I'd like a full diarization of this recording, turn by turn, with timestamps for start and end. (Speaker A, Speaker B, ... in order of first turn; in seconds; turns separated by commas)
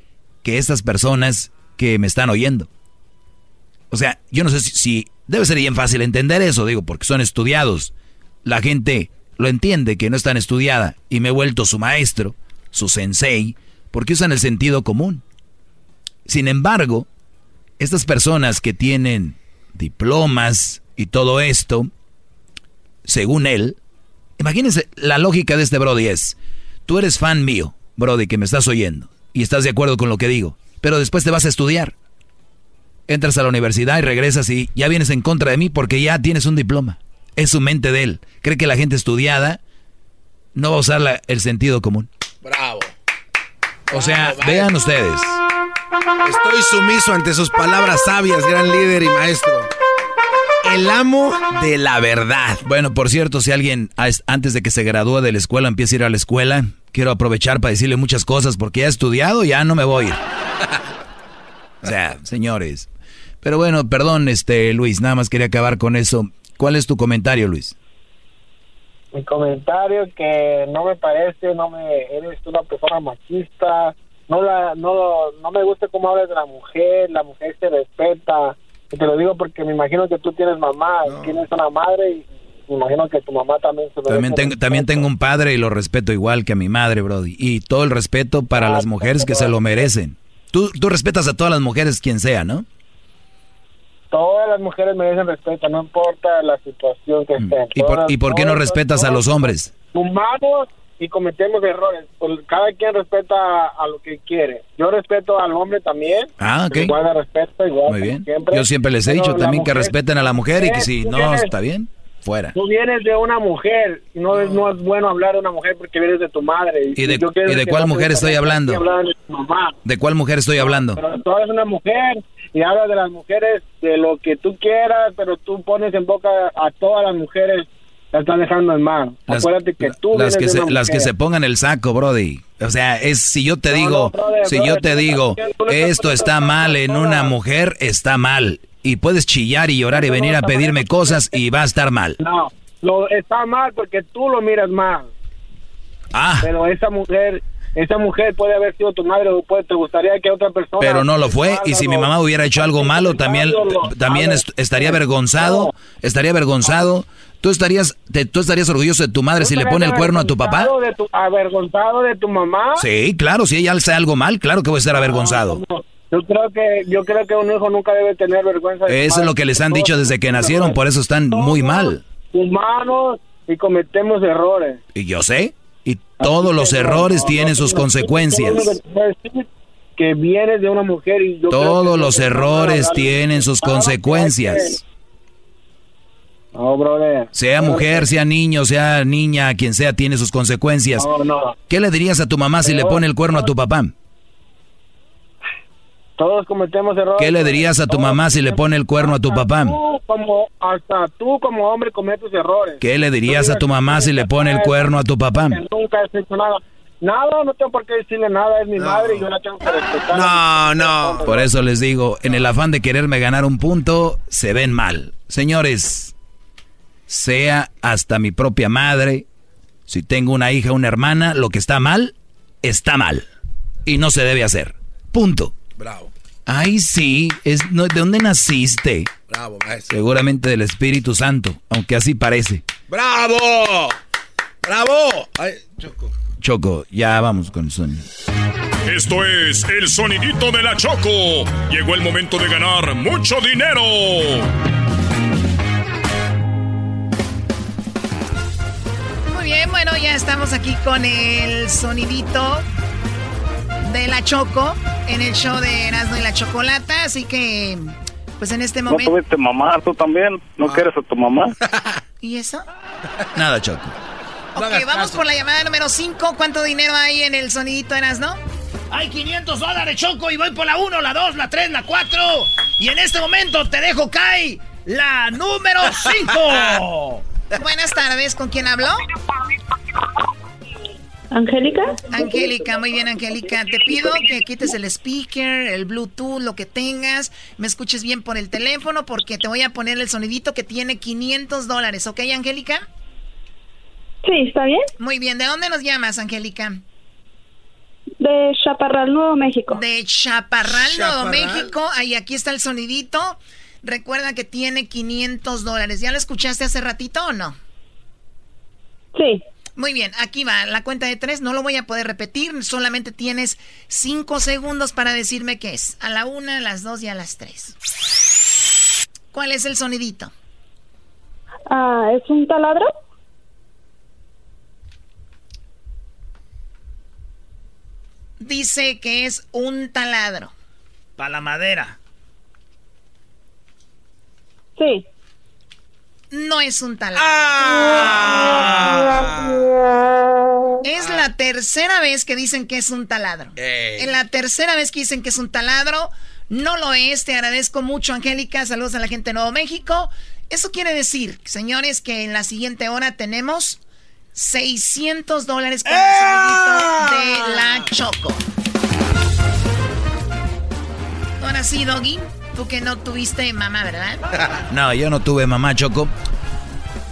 Speaker A: 0.4-2.7, Speaker A: 3.9-7.9, Speaker A: 8.4-15.2, Speaker A: 16.3-17.1, Speaker A: 17.8-21.9, Speaker A: 23.1-23.8, Speaker A: 24.4-31.9, Speaker A: 33.1-39.6, Speaker A: 40.5-42.1, Speaker B: 42.4-42.9, Speaker B: 43.9-44.8, Speaker A: 43.9-45.4, Speaker B: 46.2-49.7, Speaker B: 50.6-51.5, Speaker A: 51.5-60.2, Speaker A: 61.8-62.9, Speaker A: 63.4-67.8, Speaker C: 69.1-85.1, Speaker B: 81.0-81.4, Speaker A: 84.1-92.7, Speaker C: 88.5-89.9, Speaker C: 94.1-111.5, Speaker A: 97.4-99.7, Speaker A: 106.4-107.0, Speaker A: 107.9-112.5, Speaker C: 112.5-119.8, Speaker A: 117.0-118.8, Speaker A: 119.8-121.0, Speaker C: 120.6-131.1, Speaker A: 129.3-142.2, Speaker C: 133.7-137.3, Speaker C: 139.9-141.4, Speaker C: 142.2-145.1, Speaker A: 146.1-146.5, Speaker C: 146.4-155.7, Speaker A: 150.8-160.7, Speaker C: 159.4-162.8, Speaker A: 162.8-165.6, Speaker C: 164.9-174.8, Speaker A: 168.9-172.0, Speaker A: 174.9-178.8, Speaker C: 176.2-184.8, Speaker A: 181.5-184.8, Speaker C: 186.5-188.1, Speaker A: 187.3-191.1, Speaker C: 191.0-191.6, Speaker A: 191.7-193.9, Speaker C: 192.6-193.5, Speaker C: 196.2-204.9, Speaker A: 197.2-199.8, Speaker A: 202.8-205.6, Speaker C: 205.5-211.5, Speaker B: 208.8-209.3, Speaker B: 210.1-211.3, Speaker A: 211.2-216.1, Speaker A: 217.1-219.3, Speaker A: 219.9-223.3, Speaker A: 223.8-225.6, Speaker B: 225.8-226.1, Speaker A: 226.5-229.1, Speaker B: 229.3-229.9, Speaker A: 229.9-232.7, Speaker B: 232.9-233.9, Speaker B: 234.6-236.1, Speaker A: 236.4-238.1, Speaker D: 238.9-244.5, Speaker E: 249.3-252.6, Speaker E: 253.9-259.2, Speaker F: 258.9-261.5, Speaker B: 261.6-262.0, Speaker E: 262.2-262.6, Speaker A: 263.4-263.9, Speaker E: 264.6-268.4, Speaker B: 264.6-265.2, Speaker G: 268.9-277.2, Speaker E: 277.6-279.0, Speaker H: 281.3-282.4, Speaker E: 282.1-292.9, Speaker H: 294.2-294.9, Speaker E: 295.0-296.8, Speaker H: 298.2-299.8, Speaker E: 299.7-307.6, Speaker B: 300.6-301.7, Speaker H: 309.1-309.4, Speaker E: 309.8-317.8, Speaker E: 319.3-320.3, Speaker H: 321.7-322.9, Speaker E: 328.4-330.5, Speaker G: 331.2-332.0, Speaker H: 334.8-335.0, Speaker E: 336.3-338.1, Speaker B: 337.1-339.6, Speaker E: 340.8-353.8, Speaker B: 341.0-341.2, Speaker B: 343.6-344.2, Speaker E: 354.4-358.4, Speaker B: 355.9-357.9, Speaker E: 361.4-364.2, Speaker A: 364.7-366.1